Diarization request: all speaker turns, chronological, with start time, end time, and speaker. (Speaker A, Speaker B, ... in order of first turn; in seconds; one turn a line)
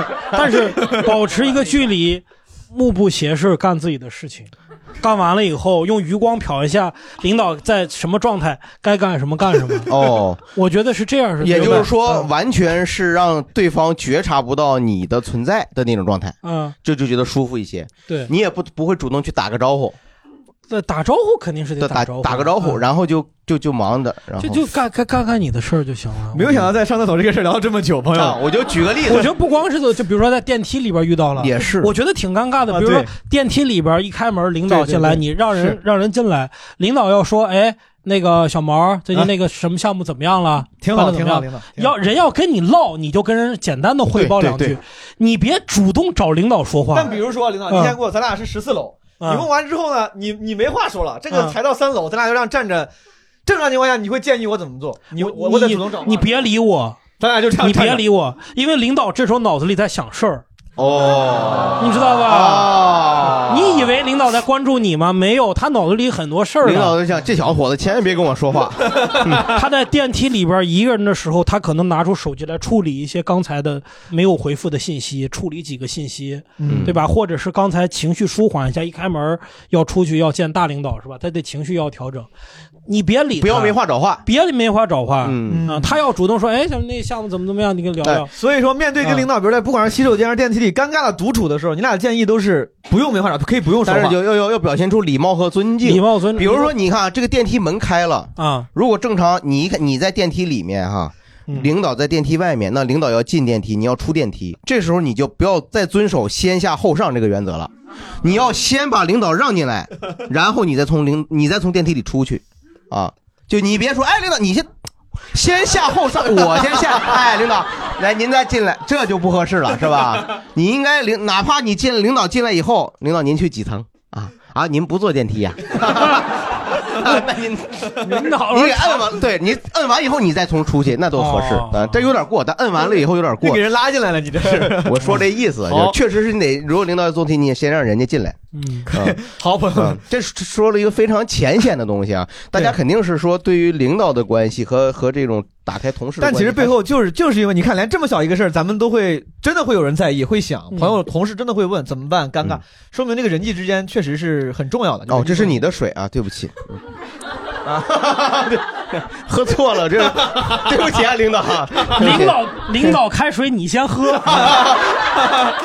Speaker A: 0.3-9.9
Speaker B: 9.9-10.4
Speaker A: 10.5-12.3
Speaker B: 11.4-19.9
Speaker A: 16.4-16.7
Speaker A: 20.7-22.8
Speaker B: 21.8-24.6
Speaker A: 24.4-26.7
Speaker C: 26.3-28.4
Speaker B: 28.1-29.3
Speaker A: 29.1-47.1
Speaker B: 31.4-31.9
Speaker C: 32.7-33.1
Speaker C: 34.7-35.8
Speaker C: 40.8-41.9
Speaker B: 44.1-44.8
Speaker C: 46.9-52.9
Speaker A: 47.7-48.0
Speaker A: 49.2-49.5
Speaker A: 51.3-51.5
Speaker C: 53.4-56.3
Speaker A: 55.1-57.0
Speaker C: 57.2-58.0
Speaker A: 57.6-60.4
Speaker B: 60.8-63.9
Speaker A: 61.8-62.7
Speaker A: 63.5-67.0
Speaker B: 66.6-69.5
Speaker A: 69.5-82.3
Speaker C: 76.6-76.9
Speaker B: 76.7-76.9
Speaker A: 82.9-88.3
Speaker B: 83.4-84.2
Speaker B: 85.2-85.7
Speaker C: 85.5-85.9
Speaker C: 88.3-94.2
Speaker A: 89.0-89.3
Speaker B: 93.8-107.7
Speaker A: 95.8-96.7
Speaker A: 98.4-98.7
Speaker B: 108.2-114.7
Speaker B: 115.3-133.6
Speaker A: 128.0-129.1
Speaker A: 131.1-132.1
Speaker C: 133.4-135.9
Speaker B: 134.4-138.4
Speaker A: 138.5-138.9
Speaker C: 138.9-140.0
Speaker B: 139.7-146.7
Speaker C: 146.2-155.6
Speaker B: 155.1-156.8
Speaker B: 157.6-162.9
Speaker A: 161.9-164.5